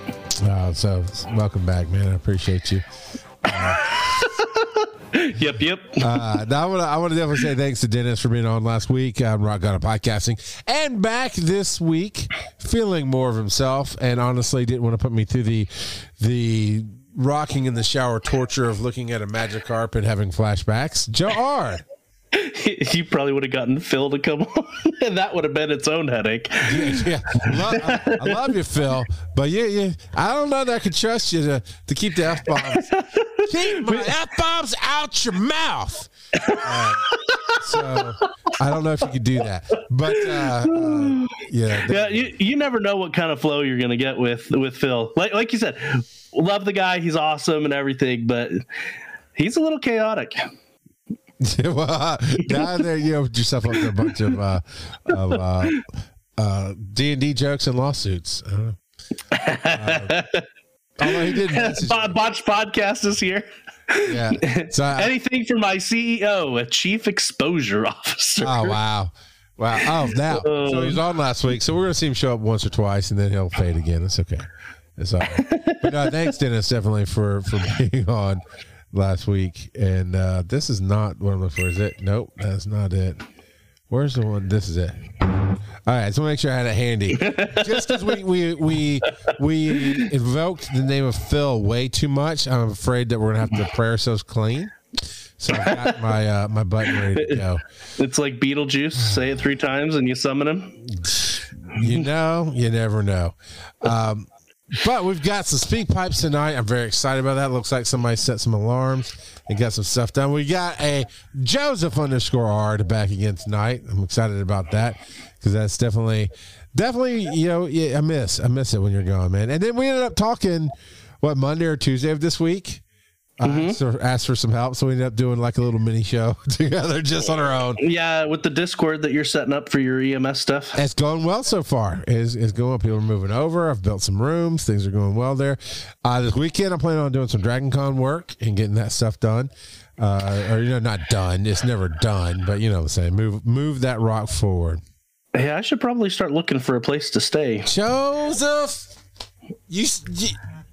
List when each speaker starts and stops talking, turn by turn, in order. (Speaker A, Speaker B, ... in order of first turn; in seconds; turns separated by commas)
Speaker A: 0.3-2.8, Speaker A: 3.4-3.9, Speaker B: 3.5-6.3, Speaker A: 6.0-21.8, Speaker B: 22.3-28.5, Speaker A: 26.6-42.3, Speaker B: 32.5-34.1, Speaker B: 36.4-38.3, Speaker B: 40.1-48.6, Speaker B: 49.4-50.5, Speaker A: 51.4-58.8, Speaker B: 55.3-55.8, Speaker B: 59.3-60.4, Speaker A: 59.7-60.2, Speaker A: 61.0-62.1, Speaker B: 61.0-68.8, Speaker A: 64.0-65.1, Speaker A: 68.4-83.2, Speaker B: 69.8-71.0, Speaker B: 75.3-76.3, Speaker A: 83.9-85.0, Speaker A: 85.8-94.7, Speaker B: 87.2-88.0, Speaker B: 89.8-90.0, Speaker A: 95.4-97.6, Speaker B: 95.5-96.0, Speaker B: 97.1-97.4, Speaker B: 98.0-100.8, Speaker A: 100.8-122.8, Speaker B: 101.8-102.0, Speaker A: 123.4-127.8, Speaker B: 123.4-123.8, Speaker B: 127.8-130.8, Speaker A: 130.7-144.8, Speaker B: 145.3-147.7, Speaker A: 147.6-148.9, Speaker A: 149.7-150.4